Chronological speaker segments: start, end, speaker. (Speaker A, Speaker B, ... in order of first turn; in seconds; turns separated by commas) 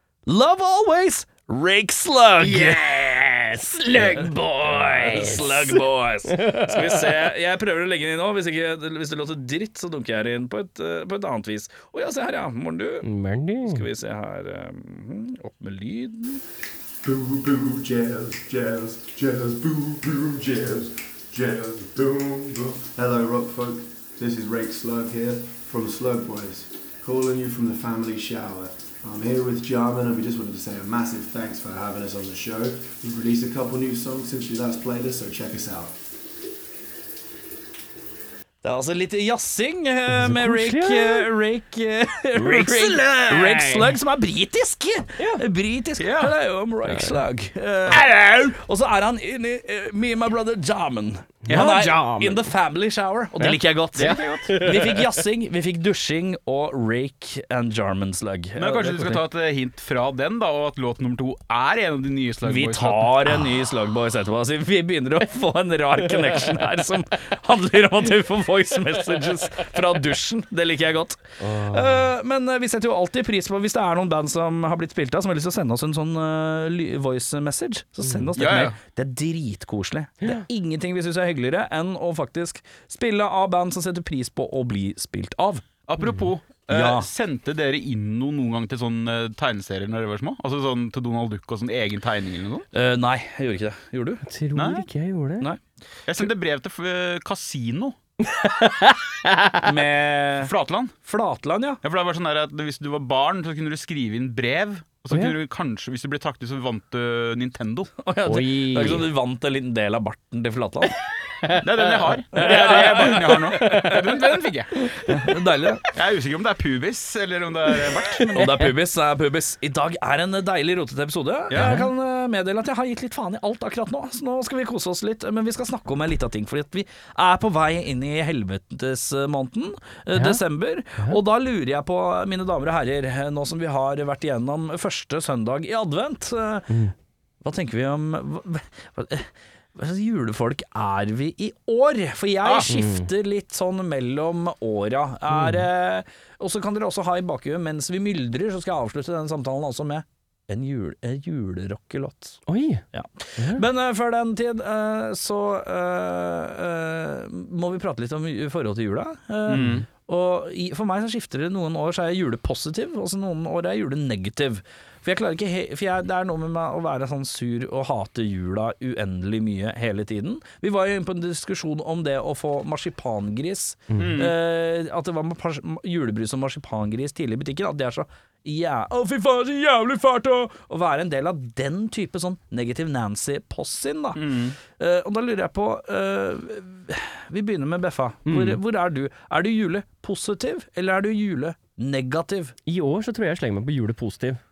Speaker A: 0.3-2.9, Speaker B: 2.4-7.2, Speaker A: 3.9-13.1, Speaker B: 13.0-13.8, Speaker A: 13.6-16.4, Speaker C: 17.0-36.0, Speaker A: 38.6-59.2, Speaker B: 40.1-41.3, Speaker B: 42.4-44.0, Speaker D: 46.0-46.3, Speaker B: 46.9-47.2, Speaker B: 51.5-52.5, Speaker D: 51.5-51.9, Speaker B: 53.4-55.3, Speaker D: 58.6-63.2, Speaker A: 62.4-85.7, Speaker B: 71.4-72.1, Speaker D: 78.4-78.8, Speaker D: 85.9-92.7, Speaker A: 86.7-87.1, Speaker A: 92.7-94.3, Speaker B: 94.3-95.5, Speaker D: 94.6-94.9, Speaker D: 96.1-98.0, Speaker B: 98.2-99.7, Speaker A: 99.6-100.5, Speaker D: 100.4-100.9, Speaker A: 101.0-101.8, Speaker D: 101.8-107.9, Speaker B: 105.1-105.4, Speaker A: 108.0-111.0, Speaker B: 108.2-109.1, Speaker B: 111.4-114.3, Speaker D: 111.6-114.7, Speaker A: 112.3-114.0, Speaker A: 114.8-115.8, Speaker D: 115.9-118.6, Speaker B: 118.2-118.7, Speaker A: 118.3-136.8, Speaker D: 121.5-121.8, Speaker B: 121.6-121.9, Speaker B: 130.1-130.4, Speaker A: 137.4-152.4, Speaker B: 142.7-143.1, Speaker B: 145.3-145.7, Speaker B: 152.5-152.8, Speaker A: 152.9-192.6, Speaker B: 153.4-153.6, Speaker D: 159.5-159.9, Speaker D: 174.0-174.4, Speaker D: 184.2-184.6, Speaker B: 188.3-188.6, Speaker B: 192.7-194.4